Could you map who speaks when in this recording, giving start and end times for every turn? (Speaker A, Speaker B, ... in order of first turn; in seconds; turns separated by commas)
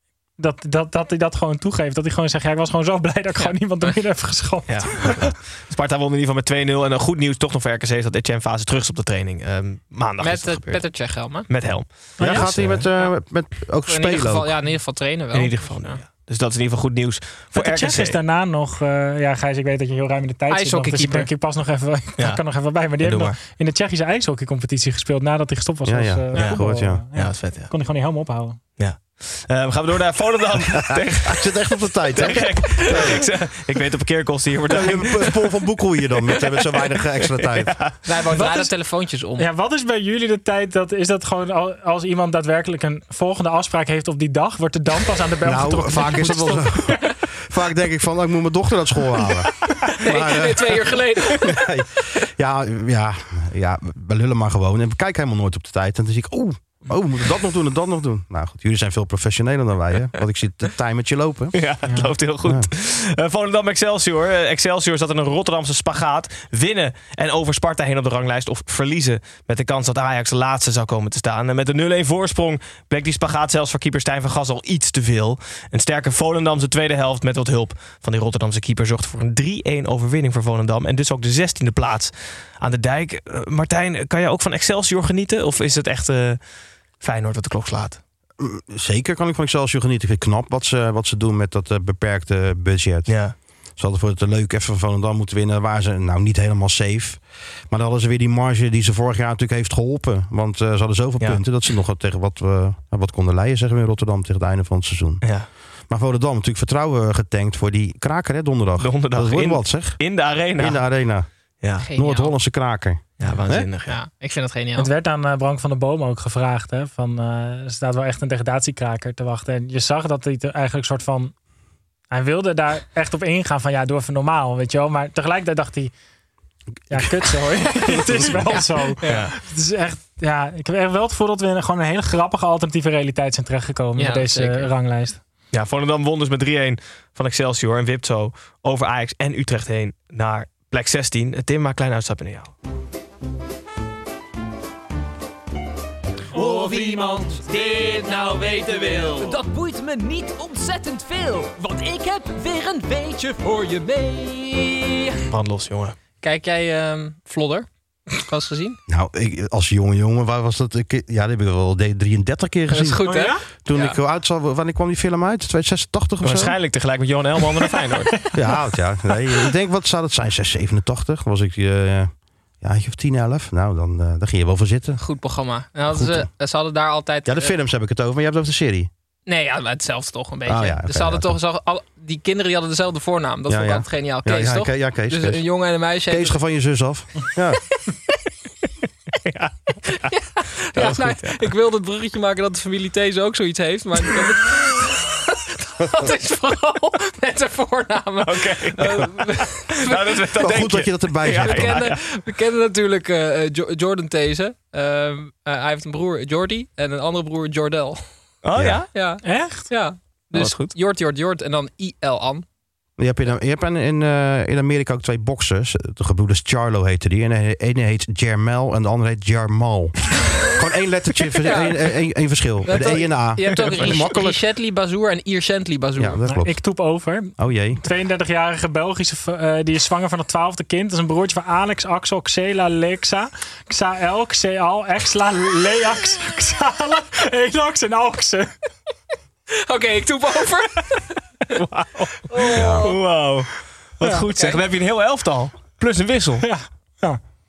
Speaker A: 0.4-5.3, Speaker B: 3.4-3.9, Speaker C: 4.7-12.9, Speaker B: 10.2-11.5, Speaker A: 12.2-12.6, Speaker D: 12.2-14.6, Speaker B: 13.8-16.0, Speaker C: 15.3-18.2, Speaker A: 17.5-28.6, Speaker B: 20.5-21.3, Speaker C: 22.2-22.4, Speaker C: 22.9-23.4, Speaker D: 25.9-27.1, Speaker C: 27.1-27.7, Speaker C: 28.8-31.6, Speaker D: 30.7-33.3, Speaker C: 32.1-35.6, Speaker D: 34.7-37.9, Speaker C: 36.3-38.0, Speaker B: 38.0-39.5, Speaker A: 38.3-38.7, Speaker A: 39.4-46.9, Speaker D: 45.4-61.7, Speaker B: 49.9-51.7, Speaker C: 61.5-86.4, Speaker A: 61.9-62.1, Speaker C: 87.0-88.0, Speaker D: 88.4-113.7, Speaker C: 93.1-93.3, Speaker C: 105.2-105.5, Speaker C: 108.8-111.0, Speaker C: 111.6-111.9, Speaker B: 111.8-112.3, Speaker C: 113.2-114.0, Speaker B: 113.9-114.9, Speaker A: 114.8-121.4, Speaker A: 122.1-125.9, Speaker D: 126.9-128.3, Speaker A: 126.9-135.2, Speaker B: 129.0-129.3, Speaker C: 129.0-129.3, Speaker B: 134.0-134.7, Speaker C: 135.5-142.6, Speaker E: 146.3-155.2, Speaker C: 155.3-156.0, Speaker B: 156.2-158.8, Speaker D: 158.9-166.6, Speaker B: 162.7-164.0, Speaker A: 163.1-163.4, Speaker C: 166.2-168.3, Speaker D: 168.3-175.0, Speaker B: 175.0-177.5, Speaker D: 175.9-176.3, Speaker D: 177.2-178.9, Speaker B: 179.3-186.4, Speaker D: 180.4-181.4, Speaker D: 183.5-185.5, Speaker D: 186.1-187.6, Speaker C: 189.2-190.1, Speaker B: 190.7-195.2, Speaker C: 190.7-191.5, Speaker B: 195.8-200.4, Speaker C: 198.2-199.2, Speaker C: 199.9-202.0, Speaker D: 200.4-201.8, Speaker B: 201.3-208.4, Speaker C: 208.4-208.9, Speaker D: 208.6-208.8, Speaker B: 208.9-212.5, Speaker A: 209.2-209.7, Speaker C: 210.3-210.8, Speaker D: 213.0-224.4, Speaker B: 221.4-226.2, Speaker C: 223.5-224.1, Speaker D: 226.0-226.7, Speaker A: 226.3-238.5, Speaker D: 227.4-227.8, Speaker B: 239.7-241.2, Speaker C: 241.6-241.9, Speaker B: 242.3-243.0, Speaker C: 242.8-246.7, Speaker B: 244.4-244.6, Speaker A: 246.4-247.2